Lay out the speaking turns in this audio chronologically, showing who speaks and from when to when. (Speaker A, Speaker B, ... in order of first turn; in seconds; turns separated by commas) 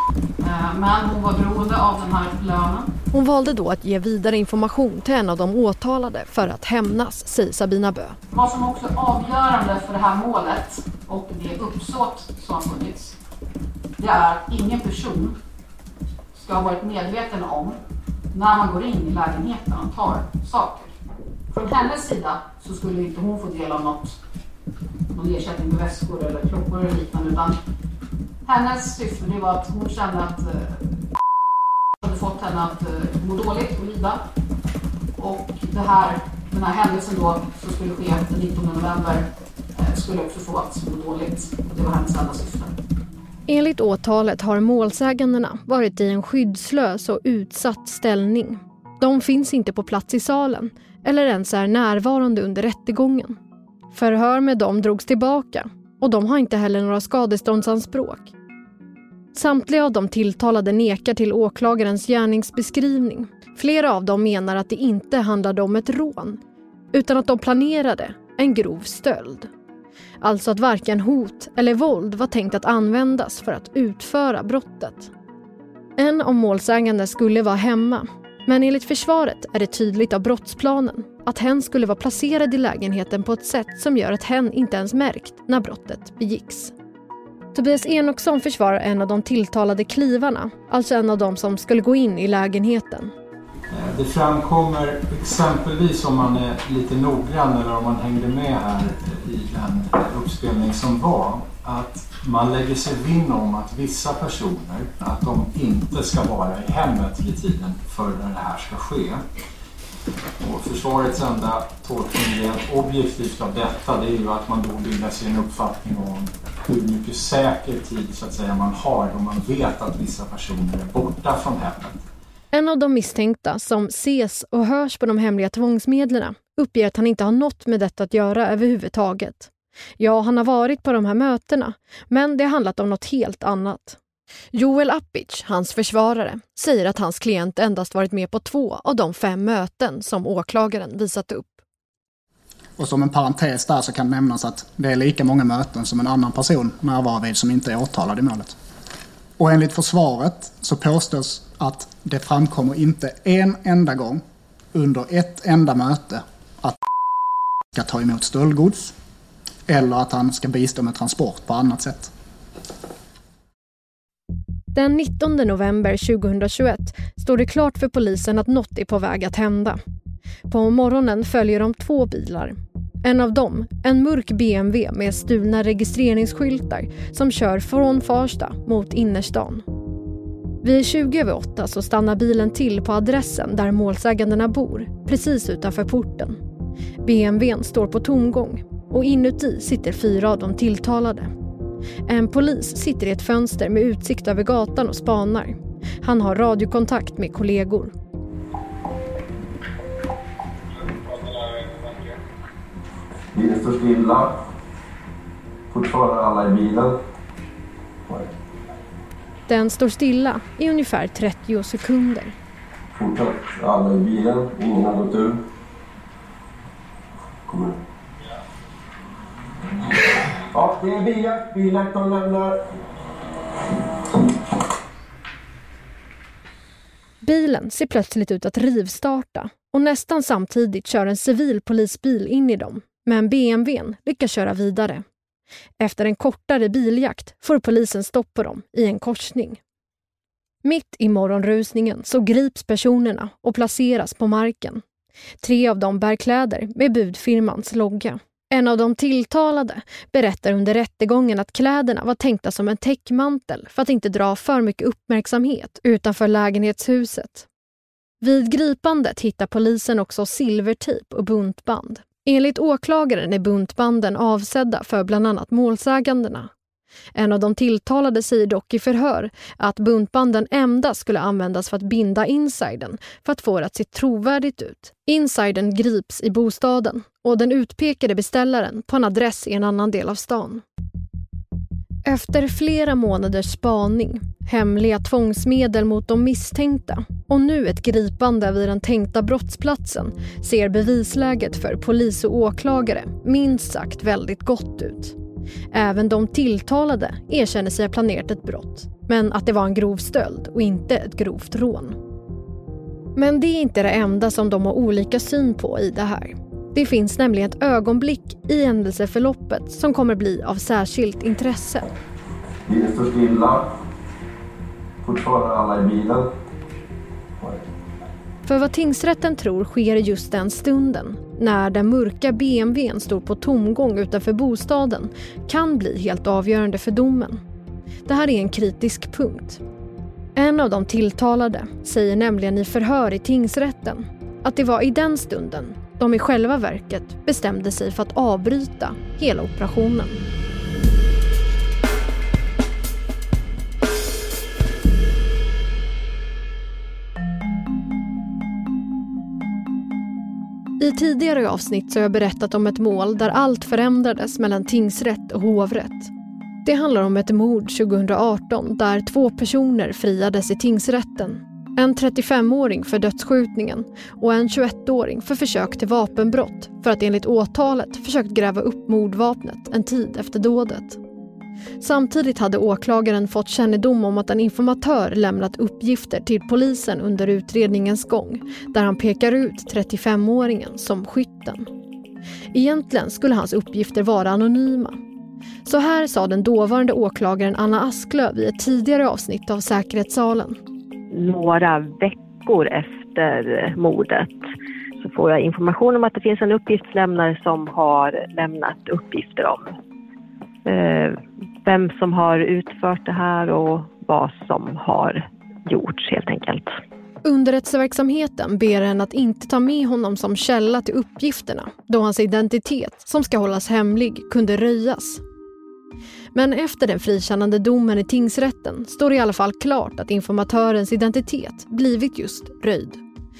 Speaker A: 0.4-2.9, Speaker B: 3.1-8.2, Speaker A: 8.3-13.2, Speaker A: 14.0-15.3, Speaker A: 16.3-17.8, Speaker A: 18.3-20.9, Speaker A: 21.5-24.2, Speaker A: 25.1-27.6, Speaker A: 28.4-30.8, Speaker A: 32.0-34.2, Speaker A: 35.2-39.2, Speaker A: 39.8-42.7, Speaker B: 43.5-53.4, Speaker B: 53.9-58.3, Speaker B: 59.3-66.4, Speaker B: 66.9-69.5, Speaker B: 70.2-75.1, Speaker B: 76.0-86.7, Speaker B: 87.5-93.1, Speaker C: 93.7-109.2, Speaker C: 110.4-122.0, Speaker B: 122.5-134.0, Speaker B: 134.5-141.6, Speaker D: 142.8-148.6, Speaker D: 149.4-154.2, Speaker D: 154.7-156.8, Speaker D: 157.7-158.9, Speaker D: 159.7-162.1, Speaker B: 164.7-169.8, Speaker B: 170.5-179.6, Speaker B: 180.6-186.4, Speaker B: 187.0-191.3, Speaker B: 192.1-197.9, Speaker E: 203.3-204.3, Speaker E: 205.7-207.0, Speaker B: 209.5-212.3, Speaker E: 212.9-215.4, Speaker E: 217.5-217.8, Speaker E: 220.5-222.6, Speaker B: 227.2-235.0, Speaker B: 235.8-239.6, Speaker B: 240.6-244.8, Speaker B: 245.4-257.5, Speaker B: 258.2-266.5, Speaker B: 267.1-280.6, Speaker B: 282.1-295.1, Speaker B: 295.7-302.0, Speaker B: 303.1-311.9, Speaker E: 312.7-313.7, Speaker E: 315.0-316.3, Speaker B: 318.4-327.4, Speaker B: 328.1-329.6, Speaker B: 330.4-340.2, Speaker B: 350.8-356.1, Speaker B: 356.6-371.0, Speaker B: 371.8-381.7, Speaker B: 382.5-385.0, Speaker B: 385.6-390.6, Speaker F: 391.1-394.5, Speaker F: 395.0-399.7, Speaker F: 400.6-406.8, Speaker B: 407.2-415.2, Speaker B: 416.3-423.0